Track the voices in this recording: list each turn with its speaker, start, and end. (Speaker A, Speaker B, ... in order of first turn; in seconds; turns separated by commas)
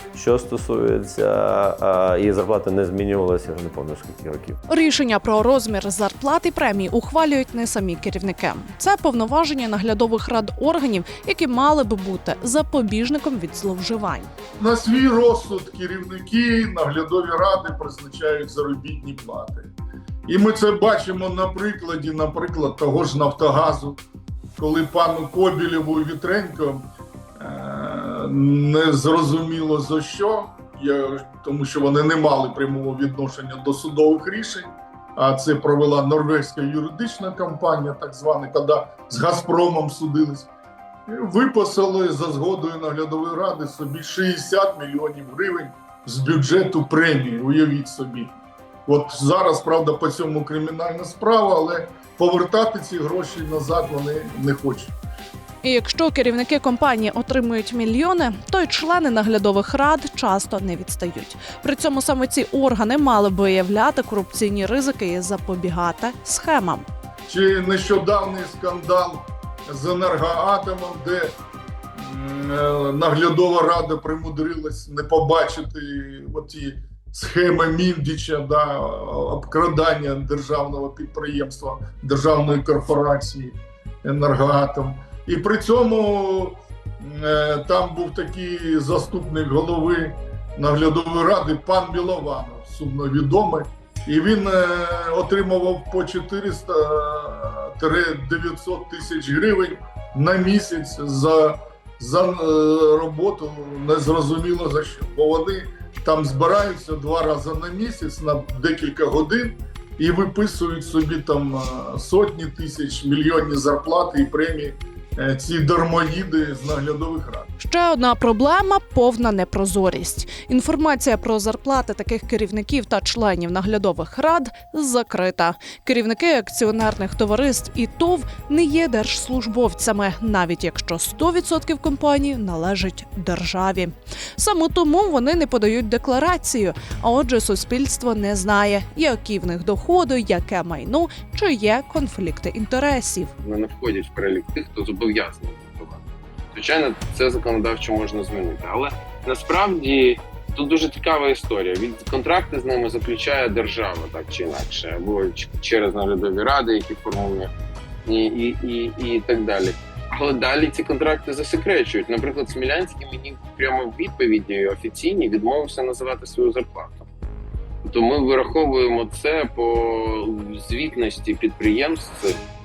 Speaker A: 0.1-4.6, Speaker B: 4.7-14.3, Speaker C: 14.6-19.7, Speaker C: 20.3-24.0, Speaker C: 24.6-26.9, Speaker C: 27.4-40.5, Speaker C: 41.1-48.3, Speaker C: 48.9-54.9, Speaker B: 55.6-66.8, Speaker C: 67.3-71.3, Speaker C: 72.0-117.5, Speaker B: 117.6-143.3, Speaker D: 143.4-157.5, Speaker D: 158.1-167.1, Speaker D: 167.8-172.4